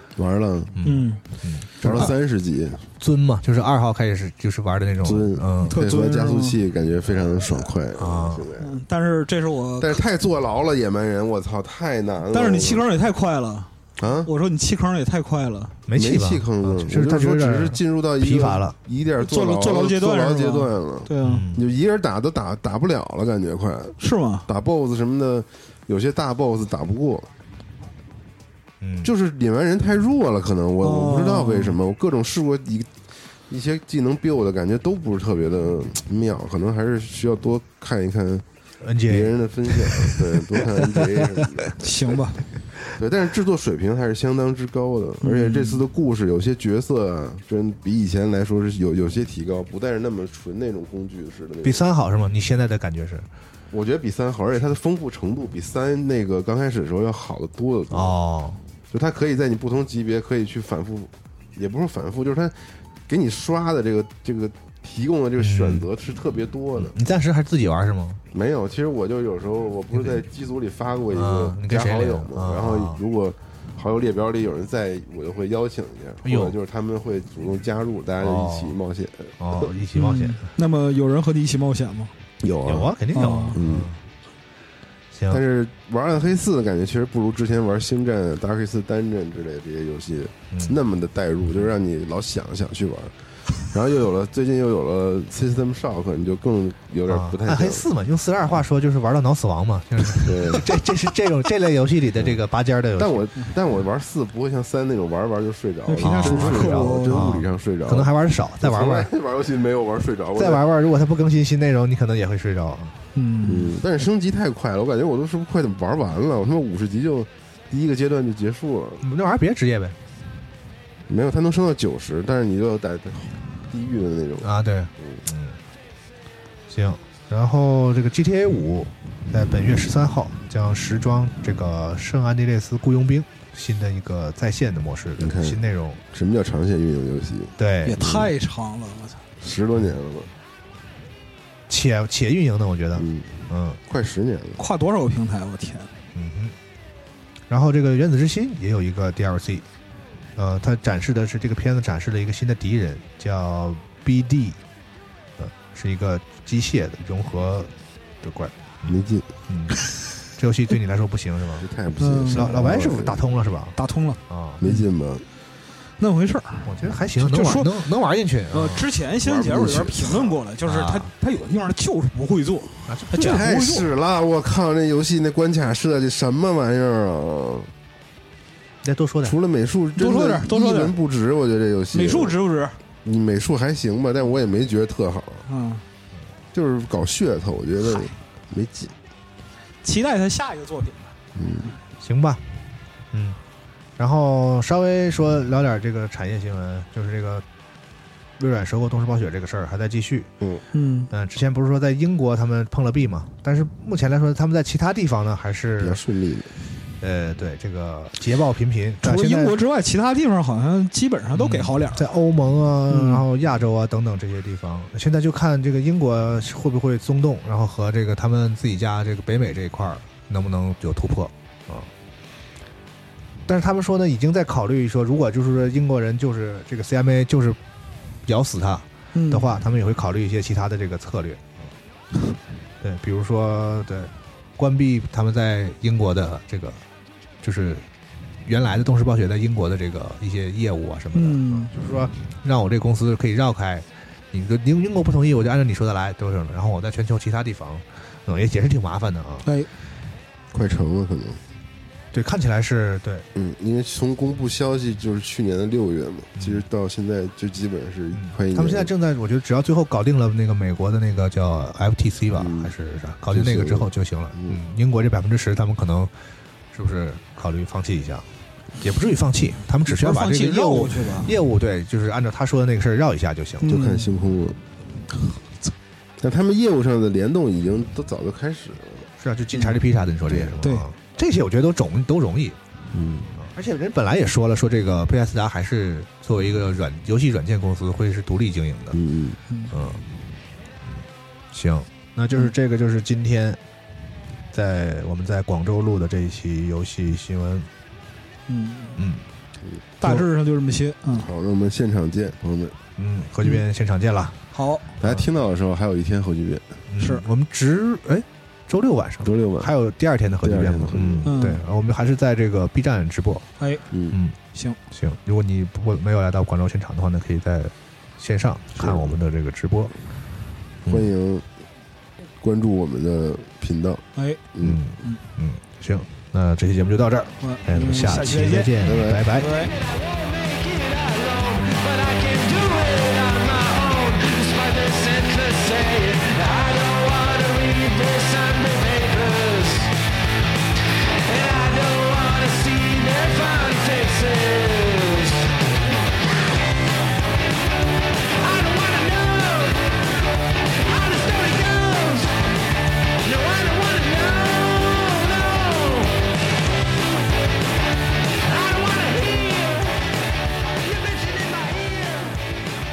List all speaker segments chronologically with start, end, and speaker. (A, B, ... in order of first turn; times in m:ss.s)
0:00.2-0:00.8 A
0:00.7-0:02.1 B
0:00.8-0:01.2 C
0:01.8-0:02.8 A
0:03.0-0:05.8 B
0:05.0-0:08.7 A
0:05.6-0:06.6 C
0:08.0-0:08.5 B
0:08.6-0:10.0 C
0:09.8-0:12.8 A
0:12.3-0:13.7 C
0:14.0-0:14.3 A
0:14.2-0:15.8 C
0:15.9-0:18.7 B
0:15.9-0:27.3 A
0:19.2-0:21.5 C
0:21.2-0:21.6 B
0:24.0-0:24.5 C
0:28.8-0:29.1 B
0:29.0-0:32.9 A
0:30.8-0:31.8 C
0:33.5-0:38.4 A
0:38.8-0:41.5 B
0:39.0-0:41.8 A
0:41.8-0:42.4 C
0:42.9-0:51.8 A
0:45.2-0:45.8 C
0:51.6-0:53.3 B
0:53.7-0:58.2 A
0:57.9-0:58.6 B
0:58.9-1:02.6 A
1:03.1-1:06.9 A
1:05.4-1:05.9 B
1:06.8-1:08.2 B
1:08.3-1:19.7 A
1:09.9-1:10.2 B
1:11.1-1:13.0 B
1:16.2-1:16.6 B
1:18.2-1:18.8 B
1:19.4-1:20.4 B
1:19.9-1:22.1 C
1:22.4-1:23.9 A
1:22.6-1:24.0 B
1:23.1-1:23.6 C
1:25.1-1:25.4 B
1:25.3-1:37.9 A
1:30.5-1:30.8 B
1:37.1-1:43.3 B
1:40.2-1:40.8 A
1:43.0-1:48.1 A
1:45.8-1:47.3 C
1:46.0-1:49.1 B
1:48.6-1:50.6 A
1:50.4-1:53.0 B
1:53.1-1:53.8 C
1:53.4-1:59.0 A
1:59.0-2:00.0 B
2:01.1-2:05.2 A
2:04.4-2:05.6 B
2:06.7-2:16.0 B
2:15.2-2:18.3 A
2:17.6-2:18.0 B
2:17.8-2:19.2 C
2:19.4-2:20.3 A
2:21.7-2:23.8 B
2:22.9-2:24.6 A
2:24.6-2:25.9 C
2:26.1-2:26.5 B
2:27.5-2:29.6 B
2:30.4-2:34.6 B
2:35.4-2:41.7 B
2:38.8-2:39.3 A
2:41.6-2:43.3 A
2:42.0-2:42.6 C
2:42.3-2:43.8 B
2:43.8-2:44.8 C
2:44.3-2:44.6 B
2:44.6-2:45.2 A
2:46.0-2:47.8 C
2:46.6-2:48.9 B
2:48.5-2:53.9 C
2:49.2-2:50.3 A
2:50.6-2:51.1 B
2:52.9-2:53.5 B
2:53.2-2:57.7 A
2:58.8-2:59.4 B
2:59.2-3:02.4 A
3:00.0-3:00.9 C
3:01.9-3:02.8 C
3:03.0-3:05.4 A
3:05.5-3:05.8 C
3:06.5-3:08.9 A
3:07.8-3:08.1 C
3:09.8-3:11.1 C
3:11.3-3:11.7 A
3:12.0-3:12.4 B
3:13.1-3:13.4 B
3:14.0-3:17.4 B
3:18.4-3:20.3 B
3:20.7-3:21.1 C
3:21.1-3:26.0 B
3:25.8-3:26.6 A
3:27.0-3:29.5 B
3:29.0-3:32.1 C
3:31.4-3:41.9 B
3:32.9-3:33.2 C
3:43.4-3:47.6 B
3:48.2-3:51.7 B
3:49.1-3:49.6 C
3:52.8-3:56.8 B
3:57.4-3:57.9 B
3:58.4-4:09.5 B
4:01.1-4:01.7 C
4:10.5-4:11.4 A
4:12.1-4:13.2 B
4:13.3-4:18.9 A
4:16.4-4:16.6 B
4:18.1-4:26.1 B
4:22.4-4:22.7 A
4:23.3-4:24.6 A
4:26.7-4:28.3 B
4:28.8-4:33.8 B
4:29.8-4:31.3 C
4:33.6-4:34.1 C
4:33.6-4:35.7 A
4:36.2-4:39.1 A
4:39.2-4:42.6 B
4:39.5-4:39.8 C
4:40.3-4:40.6 A
4:40.6-4:40.9 C
4:42.9-4:43.4 A
4:43.4-4:49.0 B
4:48.9-4:49.4 A
4:49.7-4:50.0 B
4:51.5-4:53.6 B
4:54.5-4:57.7 B
4:58.5-4:59.0 C
4:59.0-4:59.2 B
5:00.0-5:01.3 C
5:01.2-5:02.8 A
5:03.0-5:04.4 B
5:04.5-5:04.9 C
5:05.0-5:06.6 A
5:06.9-5:13.5 B
5:07.0-5:07.2 C
5:09.2-5:09.7 A
5:10.4-5:11.3 A
5:11.2-5:11.6 C
5:13.6-5:13.8 C
5:13.9-5:14.2 A
5:14.1-5:14.4 B
5:14.5-5:14.8 C
5:14.9-5:19.9 B
5:18.7-5:19.1 A
5:20.9-5:21.4 A
5:22.4-5:24.8 A
5:24.6-5:29.5 B
5:27.4-5:28.7 C
5:28.8-5:29.3 A
5:29.3-5:29.7 C
5:29.5-5:39.9 D
5:41.2-5:45.9 D
5:48.2-5:56.5 D
5:57.9-6:02.6 D